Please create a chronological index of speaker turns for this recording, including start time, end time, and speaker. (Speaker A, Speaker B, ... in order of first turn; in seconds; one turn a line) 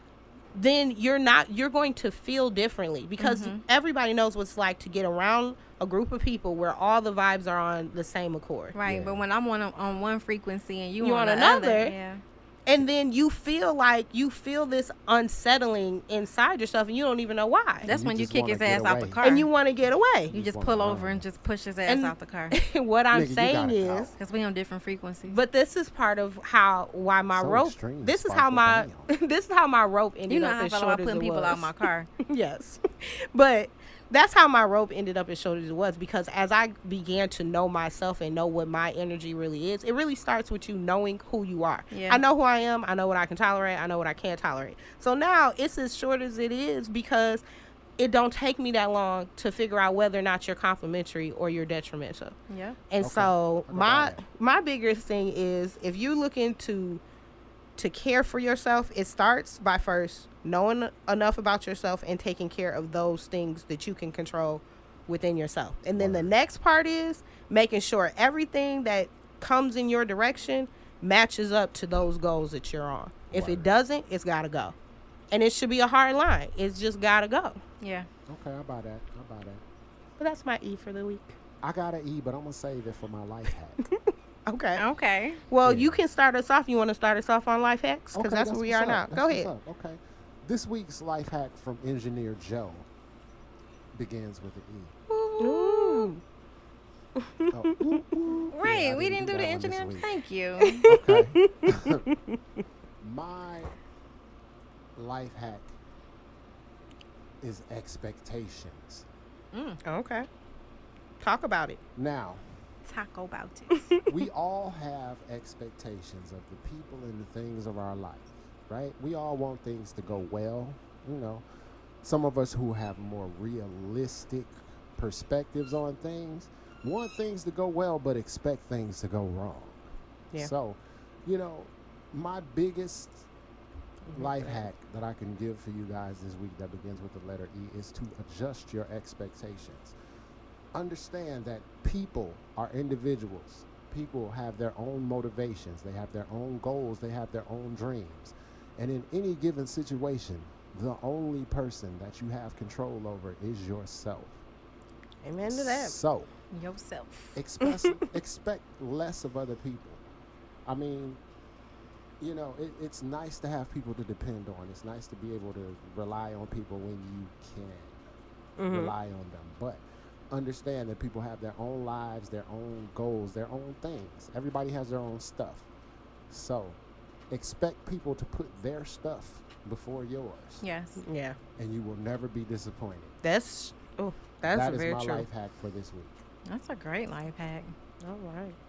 Speaker A: 0.6-8.7
Speaker B: 3.2-3.6
Speaker B: 8.7-12.2
Speaker C: 8.8-9.2
Speaker A: 11.0-11.9
Speaker A: 12.7-17.9
Speaker B: 17.8-19.5
Speaker C: 17.9-19.2
Speaker A: 19.2-20.3
Speaker C: 20.3-21.2
Speaker B: 20.3-22.6
Speaker A: 21.9-24.1
Speaker C: 23.1-24.1
Speaker B: 24.2-25.4
Speaker A: 25.3-47.4
Speaker C: 27.3-29.1
Speaker B: 30.3-32.1
Speaker B: 41.9-42.2
Speaker A: 48.0-52.3
Speaker B: 52.5-52.8
Speaker A: 52.9-57.0
Speaker C: 53.0-54.2
Speaker A: 57.8-74.7
Speaker C: 66.0-66.3
Speaker C: 73.3-73.7
Speaker A: 75.3-77.6
Speaker B: 77.8-78.1
Speaker C: 78.3-79.6
Speaker A: 80.2-81.4
Speaker C: 81.6-83.8
Speaker A: 84.5-84.8
Speaker B: 84.8-85.4
Speaker A: 85.5-89.5
Speaker C: 85.6-86.0
Speaker C: 88.1-92.9
Speaker C: 94.0-94.9
Speaker B: 95.1-96.1
Speaker A: 95.4-96.2
Speaker A: 97.2-98.0
Speaker C: 97.5-100.1
Speaker B: 98.5-100.9
Speaker A: 100.6-102.3
Speaker C: 100.9-102.1
Speaker C: 103.0-103.7
Speaker C: 105.0-105.7
Speaker C: 107.4-109.0
Speaker B: 109.5-109.8
Speaker A: 109.8-110.3
Speaker A: 111.2-111.8
Speaker C: 112.0-112.4
Speaker B: 112.9-113.9
Speaker A: 113.7-114.2
Speaker C: 114.0-121.4
Speaker C: 122.0-129.8
Speaker C: 130.4-133.3
Speaker A: 134.1-134.6
Speaker C: 134.1-139.9
Speaker C: 140.7-154.4
Speaker A: 155.2-155.9
Speaker C: 155.4-156.3
Speaker B: 156.5-157.4
Speaker C: 157.3-160.0
Speaker A: 157.6-158.0
Speaker C: 160.7-161.2
Speaker C: 162.2-168.0
Speaker A: 168.6-168.9
Speaker C: 168.7-175.7
Speaker C: 176.3-176.8
Speaker C: 177.3-180.6
Speaker B: 180.6-181.0
Speaker A: 181.0-181.4
Speaker C: 181.6-183.1
Speaker A: 183.2-185.3
Speaker C: 184.4-186.1
Speaker B: 186.5-187.7
Speaker A: 188.0-188.6